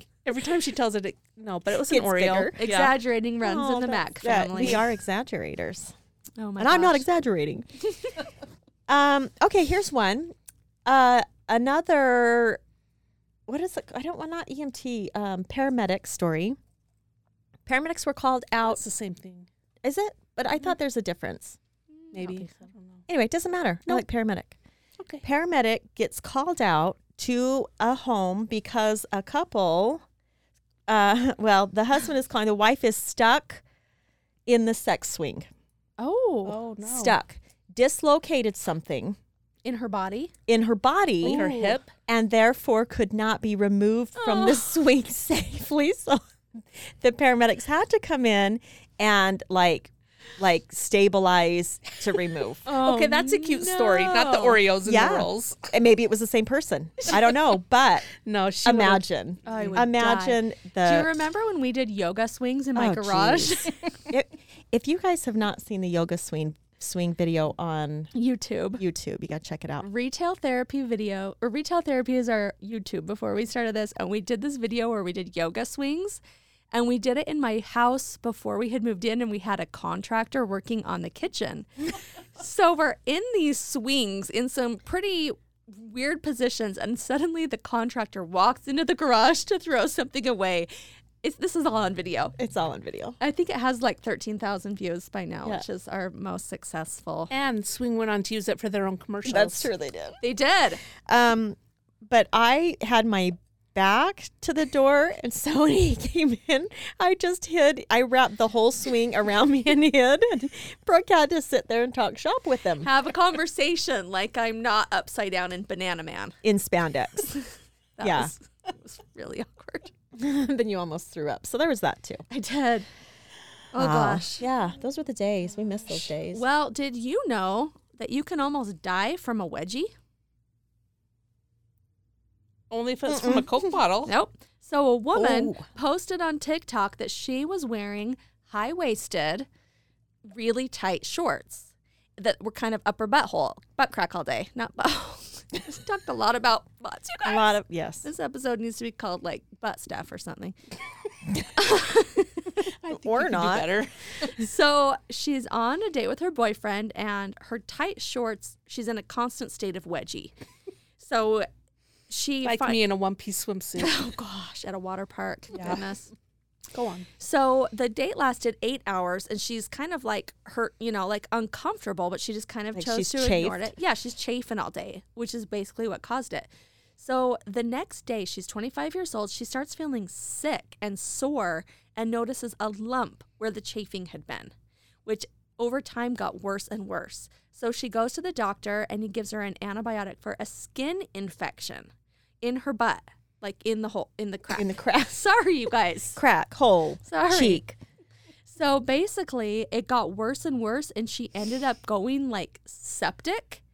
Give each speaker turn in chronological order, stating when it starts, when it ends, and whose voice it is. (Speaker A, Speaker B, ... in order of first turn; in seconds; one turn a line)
Speaker A: 0.2-3.0
Speaker B: 1.9-2.6
Speaker C: 2.6-4.8
Speaker B: 3.4-5.9
Speaker C: 6.4-7.0
Speaker B: 6.6-7.7
Speaker B: 8.9-10.3
Speaker B: 10.8-12.6
Speaker B: 13.5-16.6
Speaker B: 17.6-18.8
Speaker A: 18.6-19.5
Speaker B: 19.8-21.6
Speaker C: 21.9-22.5
Speaker A: 22.1-23.0
Speaker B: 23.1-24.5
Speaker A: 25.0-25.2
Speaker B: 25.2-30.0
Speaker B: 30.9-33.6
Speaker B: 34.5-35.5
Speaker C: 36.0-36.6
Speaker A: 36.4-37.2
Speaker B: 36.8-39.2
Speaker C: 39.6-40.3
Speaker B: 40.5-41.5
Speaker C: 41.2-41.8
Speaker A: 41.2-41.9
Speaker B: 42.0-46.2
Speaker B: 46.8-52.6
Speaker A: 52.6-55.7
Speaker C: 52.7-54.6
Speaker B: 54.8-58.1
Speaker A: 58.2-59.9
Speaker B: 58.6-61.1
Speaker C: 59.5-63.8
Speaker B: 62.8-68.1
Speaker C: 68.1-68.8
Speaker B: 68.8-69.8
Speaker C: 69.8-76.2
Speaker C: 76.7-81.7
Speaker C: 82.3-90.7
Speaker C: 91.2-92.3
Speaker B: 92.4-93.2
Speaker C: 93.2-97.3
Speaker A: 97.3-99.7
Speaker B: 99.2-100.2
Speaker C: 100.2-100.8
Speaker B: 101.1-112.9
Speaker C: 112.8-116.3
Speaker B: 116.4-117.3
Speaker C: 117.3-119.9
Speaker B: 118.0-118.3
Speaker B: 120.1-122.2
Speaker C: 122.3-122.9
Speaker C: 123.7-124.4
Speaker B: 123.7-126.4
Speaker C: 126.3-129.9
Speaker A: 132.7-134.1
Speaker B: 133.1-133.5
Speaker C: 134.0-139.5
Speaker B: 135.1-135.6
Speaker C: 140.2-150.6
Speaker B: 147.2-148.1
Speaker C: 151.5-152.6
Speaker A: 152.7-153.9
Speaker B: 152.9-153.7
Speaker C: 154.2-160.3
Speaker C: 161.0-161.5
Speaker C: 162.1-162.8
Speaker A: 162.4-164.0
Speaker C: 163.8-166.1
Speaker A: 165.5-165.8
Speaker A: 166.7-167.1
Speaker C: 167.2-184.5
Speaker B: 172.7-173.7
Speaker C: 185.0-196.2
Speaker B: 194.6-195.2
Speaker B: 196.1-197.8
Speaker C: 197.0-197.6
Speaker C: 198.5-203.6